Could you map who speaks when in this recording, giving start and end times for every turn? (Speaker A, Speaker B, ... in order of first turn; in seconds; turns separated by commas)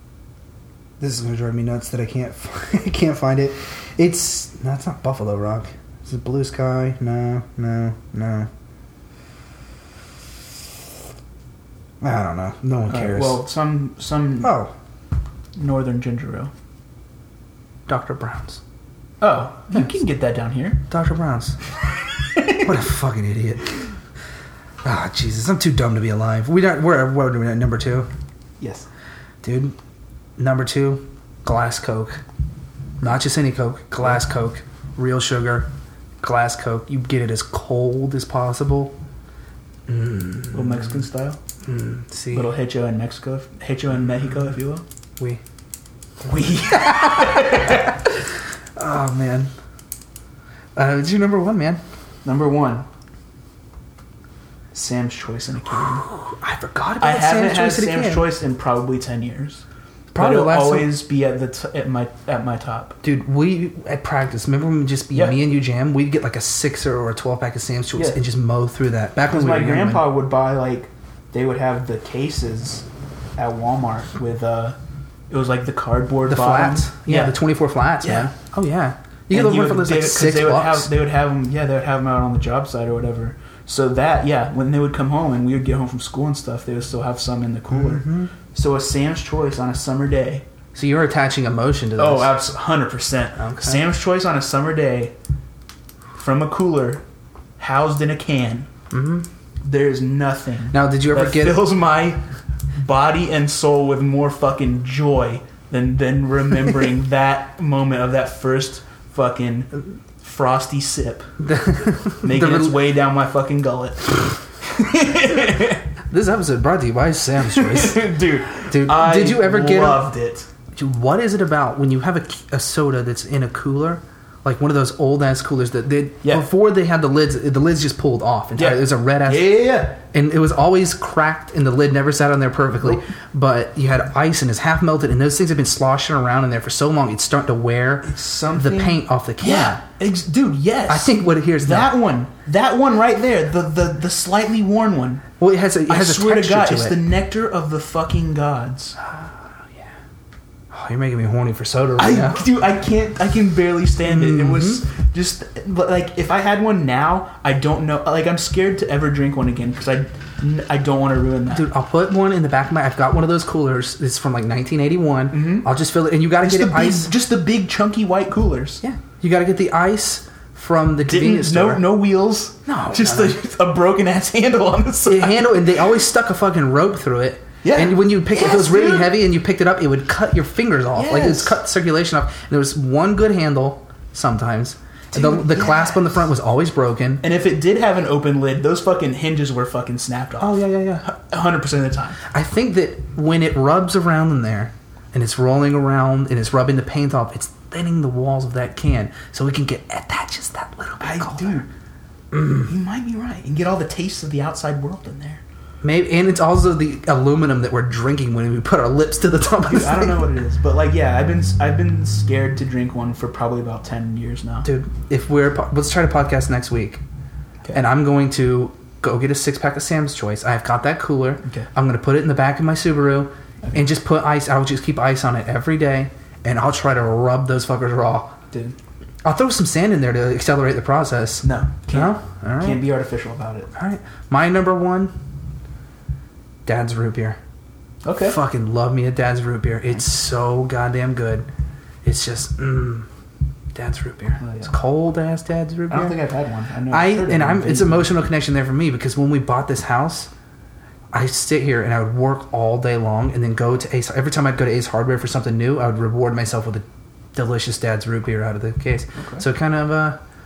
Speaker A: 1.0-8.5, Speaker A: 12.0-13.4, Speaker B: 12.9-14.6, Speaker A: 14.4-14.7, Speaker B: 15.6-16.5, Speaker A: 17.9-18.6, Speaker B: 19.2-20.8, Speaker A: 20.9-21.6, Speaker A: 22.5-23.9, Speaker A: 24.8-28.1, Speaker B: 28.6-28.9, Speaker A: 29.4-29.8, Speaker A: 30.4-32.2, Speaker A: 33.0-35.7, Speaker A: 36.2-39.0, Speaker A: 39.9-41.0, Speaker B: 40.5-41.4, Speaker A: 41.6-42.5, Speaker B: 42.3-44.8, Speaker B: 46.2-48.0, Speaker A: 46.7-48.2, Speaker A: 48.8-49.5, Speaker A: 50.8-51.8, Speaker B: 52.2-52.9, Speaker B: 54.7-56.0, Speaker A: 55.8-58.3, Speaker B: 57.0-59.6, Speaker A: 60.1-61.0, Speaker B: 60.2-63.0, Speaker A: 63.0-70.1, Speaker B: 68.0-68.2, Speaker B: 69.3-72.8, Speaker B: 73.4-74.8, Speaker B: 75.3-77.4, Speaker A: 76.3-80.9, Speaker B: 78.0-78.3, Speaker B: 79.3-90.4, Speaker A: 87.7-88.3, Speaker A: 90.8-92.4, Speaker B: 92.0-95.1, Speaker A: 93.4-93.8, Speaker B: 96.2-97.0, Speaker B: 97.6-98.7, Speaker A: 98.9-99.3, Speaker B: 99.6-102.2, Speaker A: 100.7-101.7, Speaker B: 102.8-111.3, Speaker A: 111.4-112.8, Speaker B: 112.2-115.8, Speaker A: 116.1-118.1, Speaker B: 117.5-120.5, Speaker A: 118.6-120.1, Speaker A: 120.7-139.8, Speaker B: 128.6-130.0, Speaker B: 138.1-145.2, Speaker A: 140.9-141.9, Speaker A: 145.4-147.0, Speaker B: 145.9-149.0, Speaker A: 149.0-149.9, Speaker A: 150.7-152.4, Speaker B: 152.0-161.7, Speaker A: 154.0-154.8, Speaker A: 161.5-167.1, Speaker B: 165.3-165.7, Speaker B: 166.4-168.8, Speaker A: 168.8-172.0, Speaker B: 171.1-175.7, Speaker A: 172.7-173.4, Speaker A: 175.1-187.2, Speaker B: 177.6-179.2, Speaker B: 180.9-181.6, Speaker B: 185.1-186.2, Speaker B: 187.2-192.2, Speaker A: 190.4-191.1, Speaker A: 192.3-201.6, Speaker B: 201.0-201.7, Speaker A: 202.4-202.6, Speaker B: 202.5-205.4, Speaker A: 205.8-210.3, Speaker B: 209.7-214.7, Speaker A: 214.6-217.0, Speaker A: 217.7-228.3, Speaker A: 229.2-232.8, Speaker B: 231.4-233.7, Speaker A: 233.8-235.1, Speaker A: 236.7-237.4, Speaker B: 238.0-238.4, Speaker A: 238.2-241.5, Speaker A: 242.0-243.1, Speaker A: 243.7-246.2, Speaker B: 244.4-244.7, Speaker B: 245.9-248.1, Speaker A: 246.9-250.3, Speaker A: 251.1-260.2, Speaker B: 259.2-259.4